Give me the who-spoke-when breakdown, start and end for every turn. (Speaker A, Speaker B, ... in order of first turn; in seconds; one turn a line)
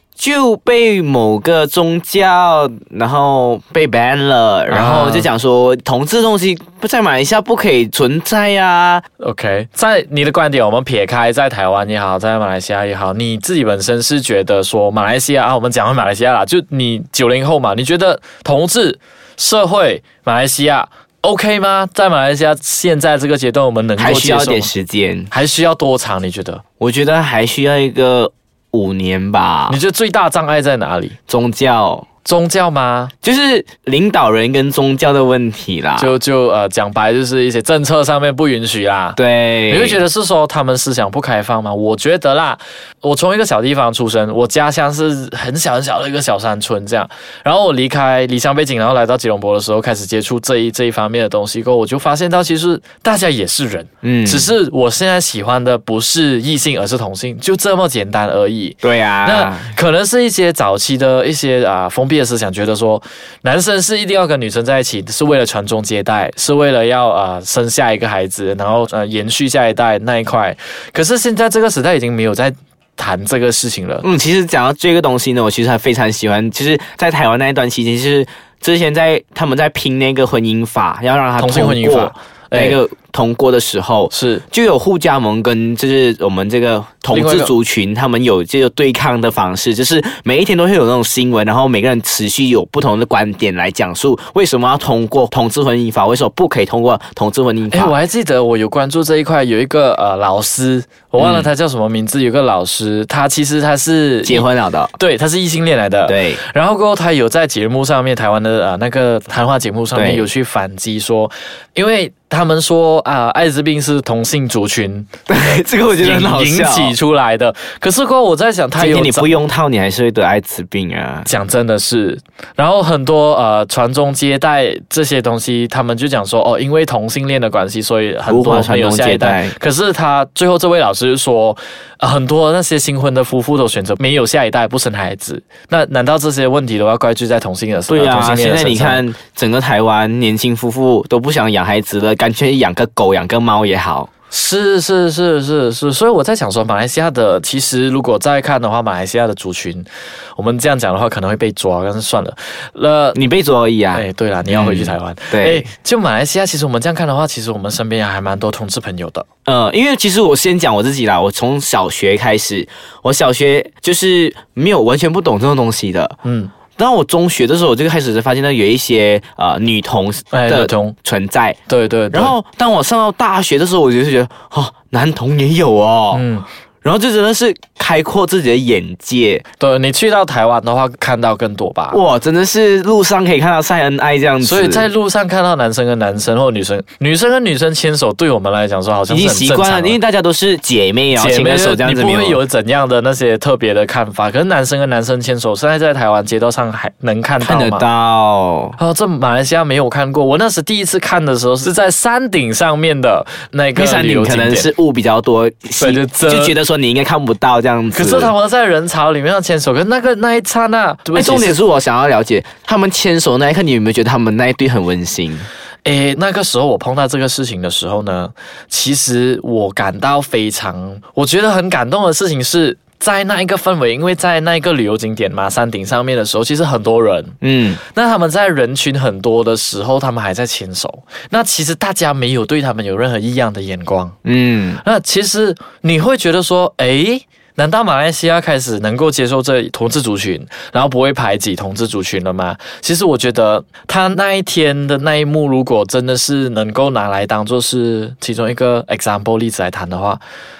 Speaker A: 0.2-9.0
Speaker B: 4.7-5.3
Speaker B: 9.2-24.7
Speaker A: 24.0-25.3
Speaker B: 25.3-26.6
Speaker A: 26.8-29.8
Speaker B: 29.7-31.1
Speaker A: 31.3-32.1
Speaker B: 32.2-33.1
Speaker A: 33.2-36.1
Speaker B: 36.0-39.2
Speaker A: 39.1-40.0
Speaker B: 39.7-74.0
Speaker A: 54.0-54.5
Speaker A: 58.8-59.7
Speaker A: 74.0-97.9
Speaker B: 81.4-82.8
Speaker B: 84.1-84.4
Speaker B: 87.1-87.5
Speaker B: 97.7-104.5
Speaker A: 101.2-101.5
Speaker A: 104.2-104.9
Speaker B: 105.0-115.1
Speaker A: 106.0-106.4
Speaker A: 109.9-110.3
Speaker A: 115.3-117.0
Speaker B: 116.0-119.3
Speaker A: 118.8-121.3
Speaker B: 121.2-139.0
Speaker A: 128.2-129.5
Speaker A: 137.9-144.1
Speaker B: 144.3-153.2
Speaker A: 153.1-155.7
Speaker B: 153.9-159.2
Speaker A: 159.4-166.2
Speaker B: 166.2-166.5
Speaker A: 166.8-171.6
Speaker B: 170.3-170.9
Speaker B: 171.7-172.4
Speaker A: 172.1-176.3
Speaker B: 176.1-176.4
Speaker A: 176.8-179.4
Speaker B: 179.6-182.0
Speaker A: 181.9-184.9
Speaker B: 184.4-190.0
Speaker A: 189.1-192.4
Speaker B: 191.1-197.9
Speaker A: 197.4-198.8
Speaker B: 198.8-204.7
Speaker A: 203.7-208.3
Speaker B: 205.8-206.6
Speaker B: 207.9-211.6
Speaker A: 211.1-215.5
Speaker B: 215.8-234.2
Speaker A: 227.4-227.8
Speaker A: 234.2-234.8
Speaker B: 234.8-250.2